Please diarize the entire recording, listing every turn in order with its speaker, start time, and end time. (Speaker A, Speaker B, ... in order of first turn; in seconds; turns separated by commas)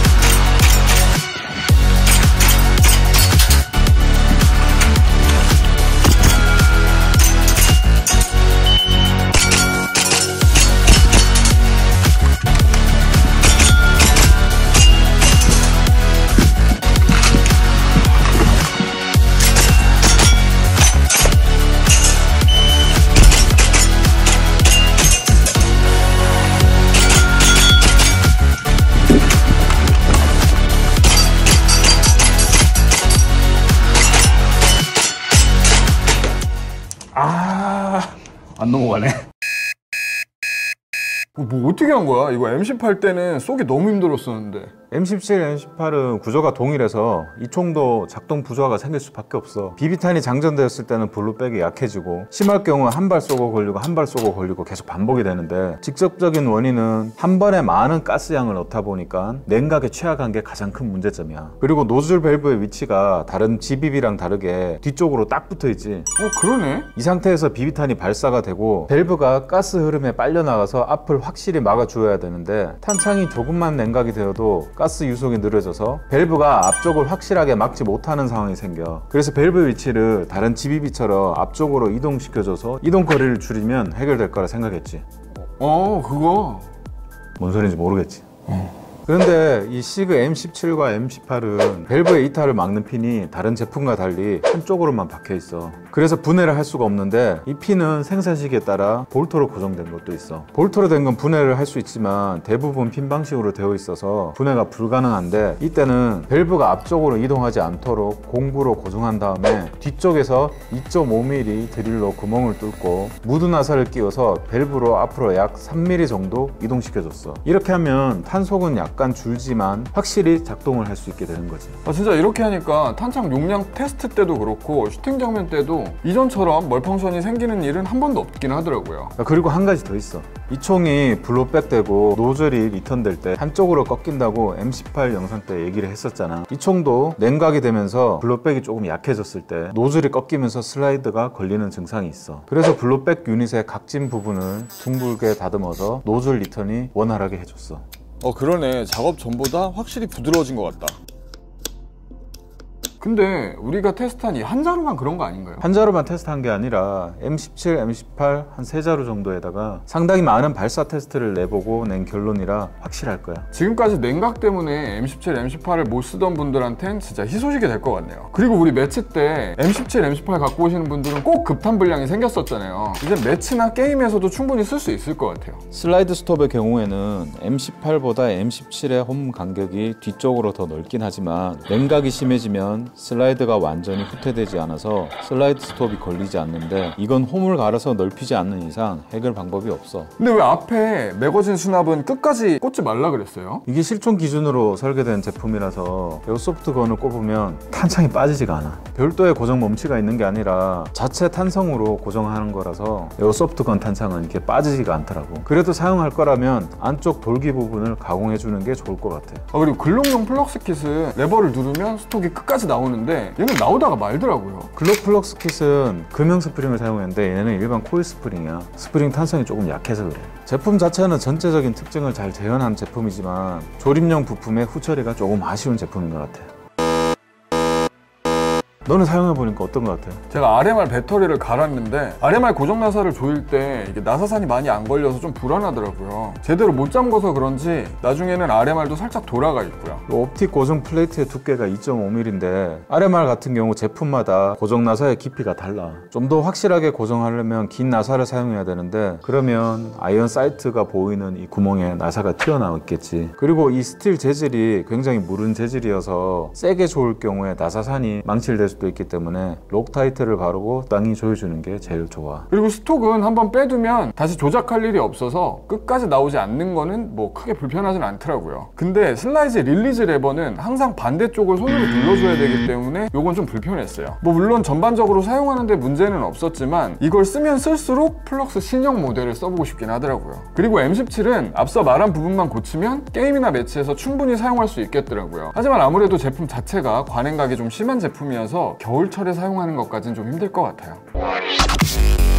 Speaker A: 37.1-39.2, Speaker A: 41.4-44.7, Speaker B: 44.9-66.1, Speaker A: 66.2-66.9, Speaker B: 67.0-85.0, Speaker A: 85.4-86.7, Speaker B: 87.4-121.8, Speaker A: 121.8-129.1, Speaker B: 129.2-147.8, Speaker A: 148.2-151.0, Speaker A: 153.0-155.7, Speaker B: 155.6-163.5, Speaker A: 163.5-175.6, Speaker B: 175.7-190.1, Speaker A: 190.2-193.7, Speaker B: 193.7-209.4, Speaker A: 209.5-214.7, Speaker B: 214.8-226.5, Speaker B: 228.8-230.2, Speaker A: 230.3-240.0, Speaker B: 240.1-262.5, Speaker A: 262.5-291.0